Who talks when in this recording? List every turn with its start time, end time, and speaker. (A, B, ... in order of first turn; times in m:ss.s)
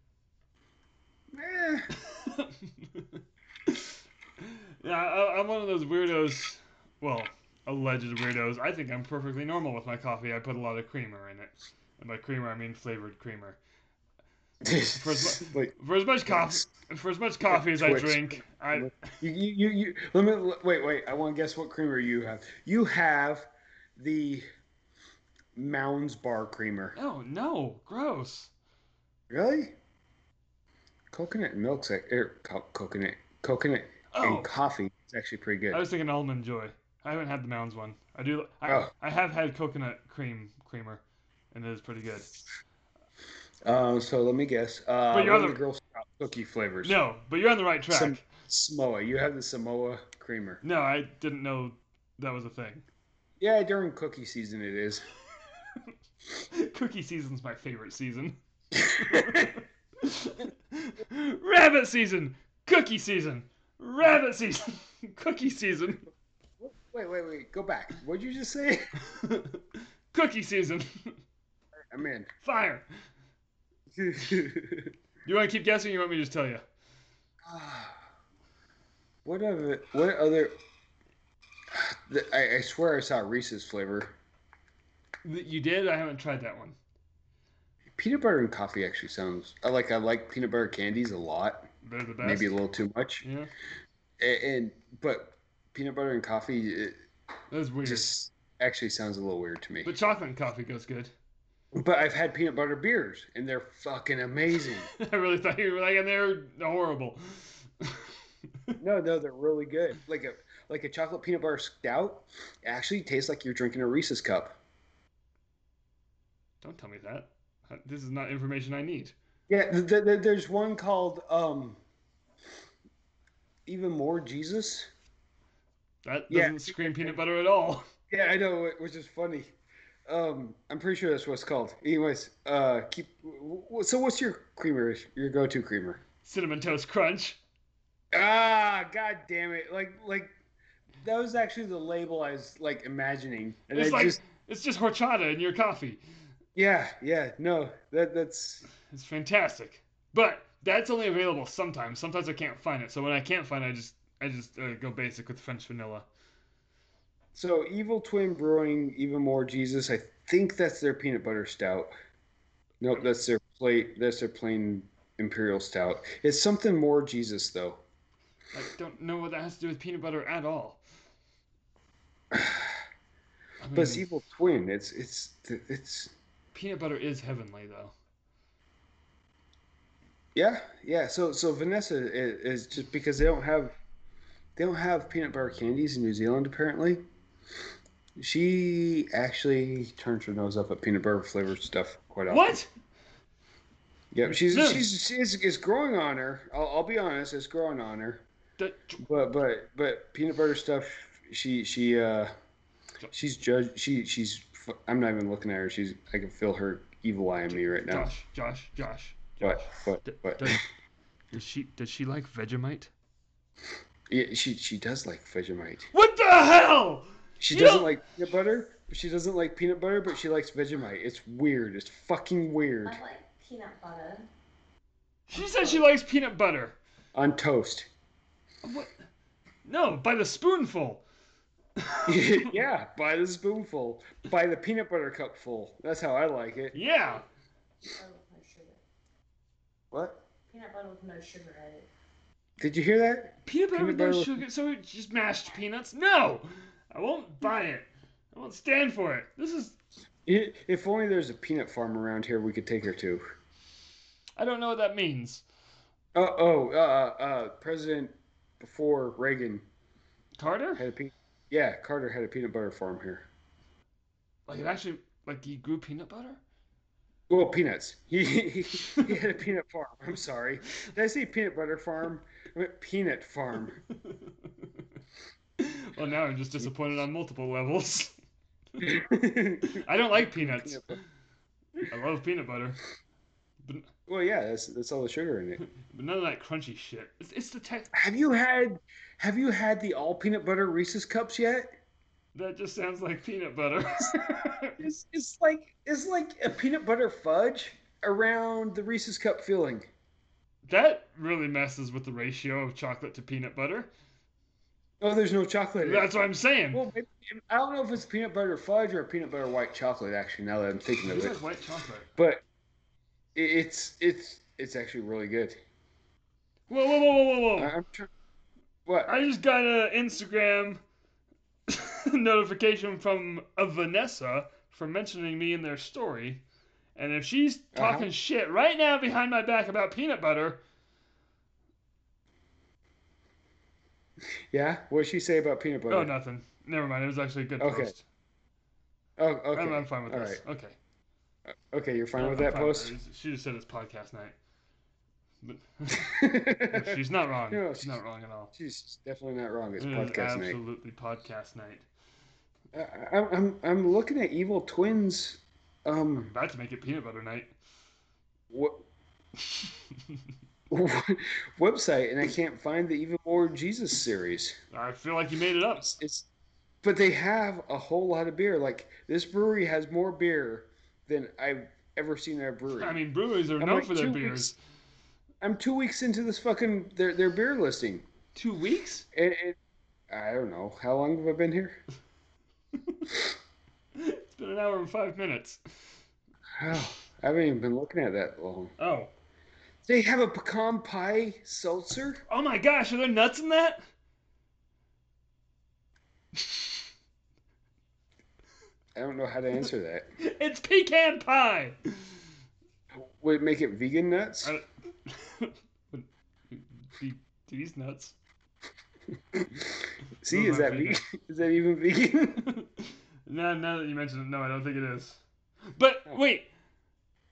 0:01.3-0:01.9 A
0:02.0-0:13.6 B
0:14.6-0:15.7 A
0:14.9-0:19.2 B
0:16.3-0:16.7 A
0:17.5-0:24.4 A
0:25.5-0:27.0 A
0:27.0-0:28.5 B
0:29.3-0:29.8 A
0:31.1-0:35.8 A
0:34.1-0:34.5 B
0:35.7-0:42.3 B
0:43.6-0:47.0 A
0:45.1-0:45.6 B
0:46.8-0:48.2 B
0:47.9-0:50.6 A
0:50.6-0:52.8 B
0:53.4-0:55.0 A
0:56.5-1:06.0 B
0:58.9-0:59.5 A
1:06.6-1:08.9 A
1:09.0-1:11.2 B
1:11.9-1:12.3 A
1:12.4-1:12.9 B
1:13.9-1:14.9 A
1:15.2-1:16.6 B
1:17.4-1:18.0 A
1:19.2-1:20.6 A
1:21.7-1:24.2 A
1:25.2-1:26.8 B
1:28.0-1:31.7 A
1:31.8-1:32.5 B
1:32.2-1:33.2 A
1:33.2-1:33.5 B
1:34.2-1:37.0 A
1:37.5-1:38.1 B
1:37.8-1:39.9 A
1:39.8-1:41.1 B
1:41.7-1:44.9 A
1:44.9-1:48.1 B
1:48.8-1:54.6 A
1:56.6-1:59.1 B
1:59.5-2:01.8 A
2:03.6-2:04.9 A
2:06.0-2:07.8 B
2:06.3-2:07.2 A
2:08.1-2:09.5 A
2:10.0-2:16.0 A
2:16.2-2:17.4 B
2:18.1-2:20.3 A
2:21.0-2:24.2 A
2:23.7-2:26.0 B
2:26.5-2:28.6 A
2:28.8-2:36.1 B
2:37.3-2:41.9 A
2:42.8-2:47.8 A
2:48.5-2:50.8 B
2:52.3-2:52.8 A
2:53.6-2:54.0 B
2:53.7-2:56.1 A
2:56.5-2:57.9 B
3:00.3-3:03.8 A
3:04.6-3:07.0 A
3:08.2-3:12.6 A
3:12.3-3:12.7 B
3:14.1-3:18.2 A
3:14.2-3:14.9 B
3:18.6-3:19.0 B
3:19.0-3:22.3 A
3:23.1-3:28.1 A
3:27.5-3:30.6 B
3:29.4-3:30.6 A
3:31.3-3:32.9 B
3:34.1-3:35.9 A
3:35.9-3:38.0 B
3:37.4-3:43.0 A
3:42.8-3:44.3 C
3:45.3-3:46.8 B
3:45.5-3:45.8 C
3:47.1-3:47.9 A
3:48.6-3:49.0 B
3:49.6-3:51.0 B
3:51.8-3:52.5 B
3:52.1-3:56.8 A
3:56.7-3:57.2 B
3:57.8-3:58.8 C
3:59.9-4:00.2 A
4:00.5-4:01.9 C
4:02.6-4:04.3 A
4:03.4-4:09.8 B
4:10.2-4:13.2 A
4:14.4-4:15.4 B
4:16.1-4:19.6 A
4:20.4-4:20.8 B
4:20.8-4:23.3 A
4:24.5-4:26.4 B
4:27.3-4:33.8 A
4:34.1-4:34.6 B
4:35.6-4:38.2 B
4:38.8-4:41.0 A
4:39.7-4:41.0 B
4:41.9-4:42.8 B
4:43.6-4:43.9 B
4:44.1-4:45.6 A
4:45.6-4:47.9 B
4:47.9-4:51.7 A
4:52.3-4:54.8 B
4:54.8-4:59.9 A
5:00.7-5:03.9 B
5:05.0-5:06.1 A
5:05.8-5:06.8 B
5:06.7-5:11.4 A
5:11.0-5:12.1 B
5:12.2-5:12.4 A
5:13.3-5:15.6 A
5:16.7-5:17.7 B
5:17.6-5:18.1 A
5:18.8-5:19.1 A
5:19.0-5:20.8 B
5:21.7-5:26.4 B
5:27.0-5:30.6 B
5:27.7-5:28.1 A
5:34.5-5:36.1 A
5:35.9-5:38.0 B
5:37.6-5:37.9 A
5:39.2-5:40.4 A
5:39.5-5:40.8 B
5:41.5-5:42.9 A
5:42.2-5:44.4 B
5:45.4-5:48.5 B
5:46.0-5:47.9 A
5:48.5-5:50.6 A
5:49.8-5:51.8 B
5:52.7-5:56.3 A
5:56.2-5:57.5 B
5:58.5-5:58.8 A
6:00.7-6:04.6 A
6:04.7-6:05.9 B
6:05.8-6:06.3 A
6:06.8-6:13.0 A
6:12.7-6:14.6 B
6:13.6-6:14.5 A
6:15.4-6:18.0 A
6:18.3-6:19.0 B
6:19.1-6:19.6 A
6:20.1-6:21.8 A
6:24.0-6:25.6 B
6:26.6-6:28.7 A
6:28.8-6:29.1 B
6:29.8-6:32.2 A
6:32.3-6:33.8 B
6:36.4-6:36.6 B
6:38.9-6:40.1 A
6:40.2-6:42.2 B
6:42.9-6:44.5 A
6:44.4-6:48.2 B
6:49.4-6:49.6 A
6:50.2-6:52.5 A
6:50.3-6:51.0 B
6:52.4-6:55.2 B
6:55.7-6:56.5 B